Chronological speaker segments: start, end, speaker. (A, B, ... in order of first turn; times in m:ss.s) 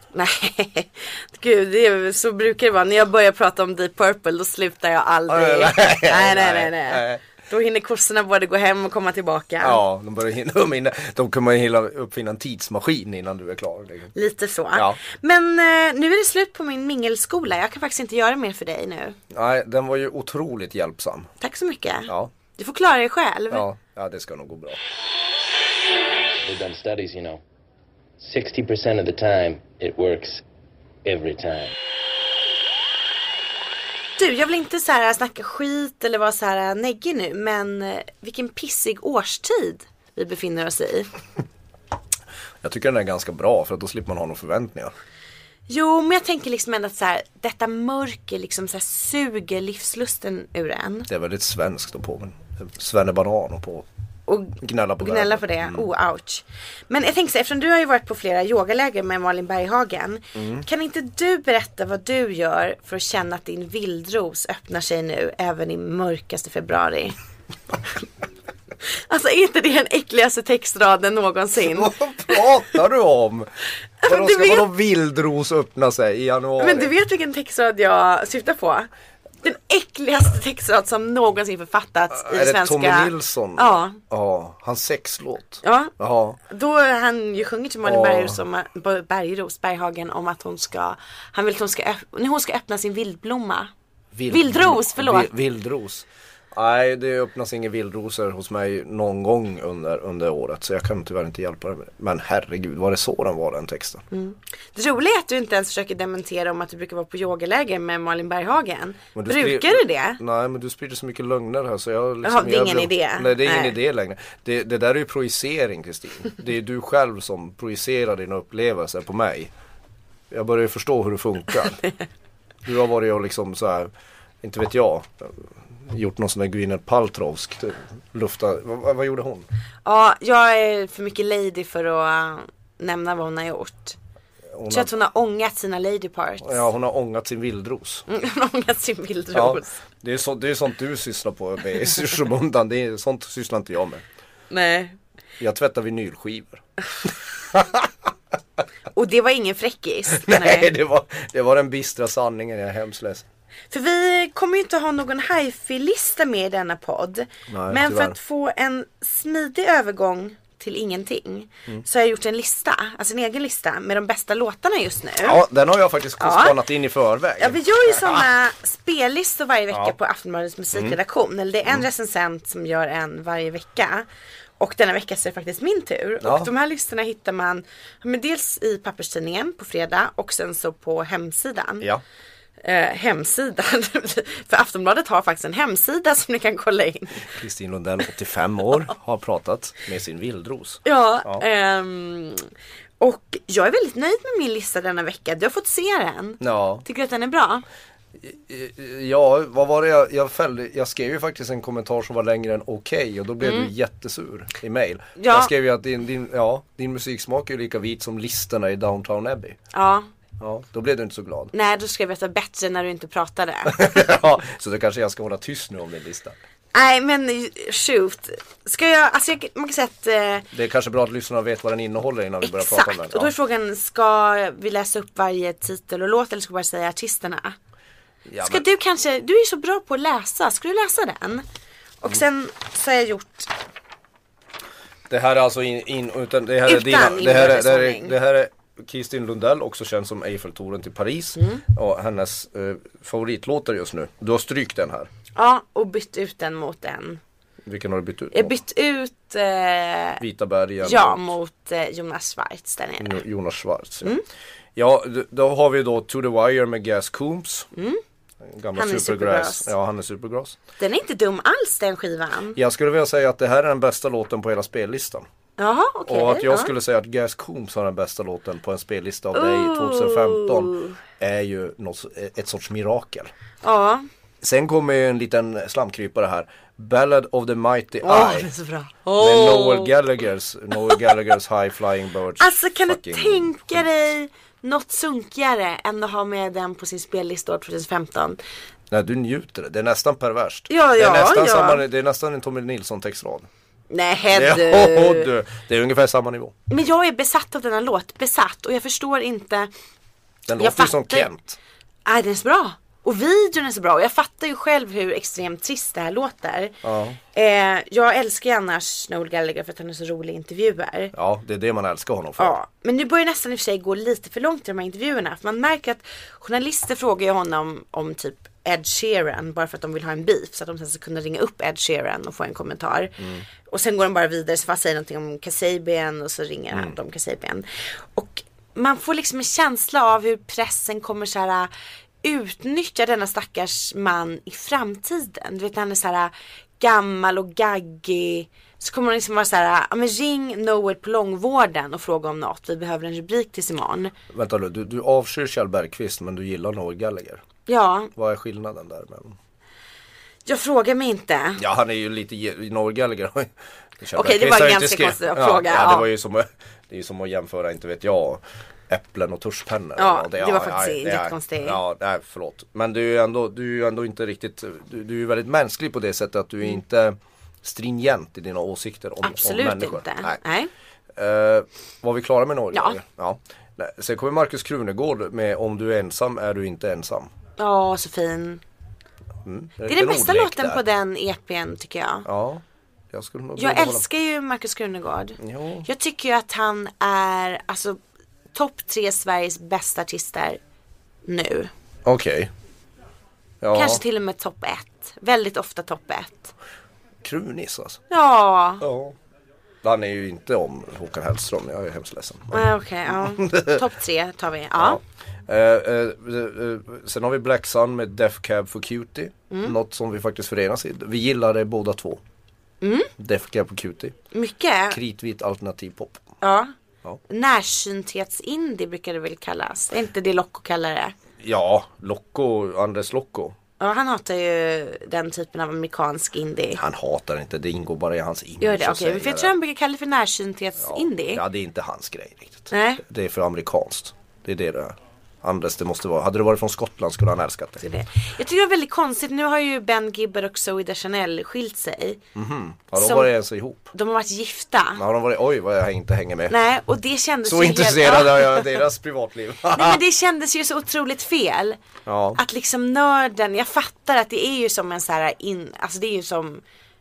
0:00.1-0:09.8 A
0:05.3-0:07.2 B
0:09.6-0:14.1 B
0:14.1-0:19.2 A
0:14.7-0:15.0 B
0:19.3-0:21.3 B
0:21.4-0:23.6 A
0:23.5-0:24.8 B
0:26.4-0:27.4 C
0:28.2-0:30.4 C
0:31.0-0:31.7 C
0:34.2-0:41.1 A
0:42.6-0:44.9 B
0:45.7-0:51.1 A
0:51.1-0:53.8 B
0:54.3-1:07.2 A
0:54.6-0:55.9 B
1:00.4-1:00.6 B
1:08.9-1:12.4 A
1:11.6-1:13.5 B
1:14.0-1:14.7 A
1:14.0-1:16.9 B
1:16.6-1:18.9 A
1:19.4-1:24.0 A
1:22.1-1:26.4 B
1:25.6-1:25.9 A
1:26.5-1:33.7 A
1:27.8-1:28.4 B
1:34.1-1:44.0 B
1:34.3-1:35.3 A
1:44.1-1:50.2 A
1:49.1-1:59.5 B
1:52.2-1:53.8 A
2:00.3-2:01.8 B
2:02.6-2:03.9 B
2:04.4-2:09.4 B
2:09.8-2:14.0 A
2:14.5-2:14.9 B
2:14.7-2:16.7 A
2:16.4-2:18.0 B
2:18.1-2:19.8 A
2:19.3-2:24.0 B
2:24.5-2:25.0 A
2:25.4-2:27.9 B
2:28.9-2:30.7 A
2:30.1-2:33.2 B
2:33.7-2:45.4 A
2:37.5-2:38.2 B
2:45.2-2:48.3 B
2:46.2-2:46.6 A
2:47.4-2:54.0 A
2:50.7-2:51.0 B
2:54.6-3:01.9 A
2:56.2-2:56.5 B
3:02.6-3:07.3 A
3:07.2-3:11.4 B
3:10.8-3:17.6 A
3:16.4-3:16.8 B
3:18.2-3:29.6 B
3:23.4-3:23.7 A
3:25.2-3:25.5 A
3:29.7-3:30.1 A
3:30.4-3:31.5 B
3:31.5-3:34.1 A
3:33.6-3:36.4 B
3:36.7-3:40.5 A
3:40.5-3:43.3 B
3:42.4-3:47.6 A
3:48.2-3:48.6 B
3:48.4-3:51.4 A
3:52.0-3:53.5 A
3:55.1-4:05.1 B
3:56.6-3:58.1 A
4:01.4-4:01.6 A
4:05.3-4:07.2 A
4:07.6-4:08.5 B
4:08.3-4:10.2 A
4:10.2-4:11.3 B
4:10.8-4:13.2 A
4:13.0-4:14.1 B
4:14.8-4:17.7 B
4:17.7-4:18.0 A
4:18.4-4:20.6 B
4:18.7-4:19.7 A
4:20.8-4:22.6 A
4:22.5-4:25.2 B
4:25.6-4:26.7 A
4:26.1-4:33.3 B
4:29.3-4:31.0 A
4:33.6-4:34.0 A
4:34.4-4:38.5 B
4:38.0-4:39.9 A
4:39.2-4:43.8 B
4:42.4-4:48.4 A
4:48.9-4:53.5 B
4:50.7-4:51.8 A
4:53.9-4:55.3 A
4:54.3-4:56.5 B
4:56.7-4:59.7 A
5:00.4-5:01.6 B
5:00.6-5:01.3 A
5:02.0-5:06.8 A
5:06.8-5:07.2 B
5:07.3-5:11.1 A
5:11.1-5:12.6 B
5:12.4-5:31.7 A
5:32.2-5:44.1 A
5:44.3-5:47.4 B
5:47.6-5:48.1 A
5:48.1-5:49.4 B
5:50.4-5:51.6 A
5:51.6-6:10.4 B
5:54.1-5:56.1 A
6:00.0-6:01.8 A
6:09.2-6:10.7 A
6:11.1-6:17.3 B
6:12.7-6:13.0 A
6:17.6-6:18.6 A
6:19.4-6:20.8 B
6:19.8-6:22.3 A
6:22.2-6:24.0 B
6:23.6-6:28.0 A
6:25.4-6:25.9 B
6:28.5-6:30.6 A
6:31.2-6:31.7 A
6:32.0-6:32.5 B
6:33.6-6:34.0 B
6:33.7-6:36.5 A
6:37.2-6:38.0 B
6:38.1-6:38.8 A
6:38.8-6:39.1 B
6:39.8-6:43.8 B
6:42.5-6:45.0 A
6:44.8-6:52.2 B
6:49.5-6:49.7 A
6:52.8-6:53.1 A
6:53.2-6:54.1 B
6:54.3-6:55.0 A
6:54.9-6:56.2 B
6:56.4-6:56.7 A
6:57.3-7:01.1 A
7:01.4-7:03.6 B
7:03.8-7:06.8 A
7:06.8-7:09.5 B
7:08.6-7:11.4 A
7:10.8-7:17.8 B
7:12.7-7:13.0 A
7:17.8-7:22.2 A
7:22.3-7:23.9 B
7:23.0-7:23.3 A
7:23.9-7:25.0 A
7:25.0-7:26.5 B
7:26.5-7:28.8 A
7:27.4-7:30.0 B
7:29.7-7:31.8 A
7:32.0-7:32.4 B
7:32.3-7:36.6 A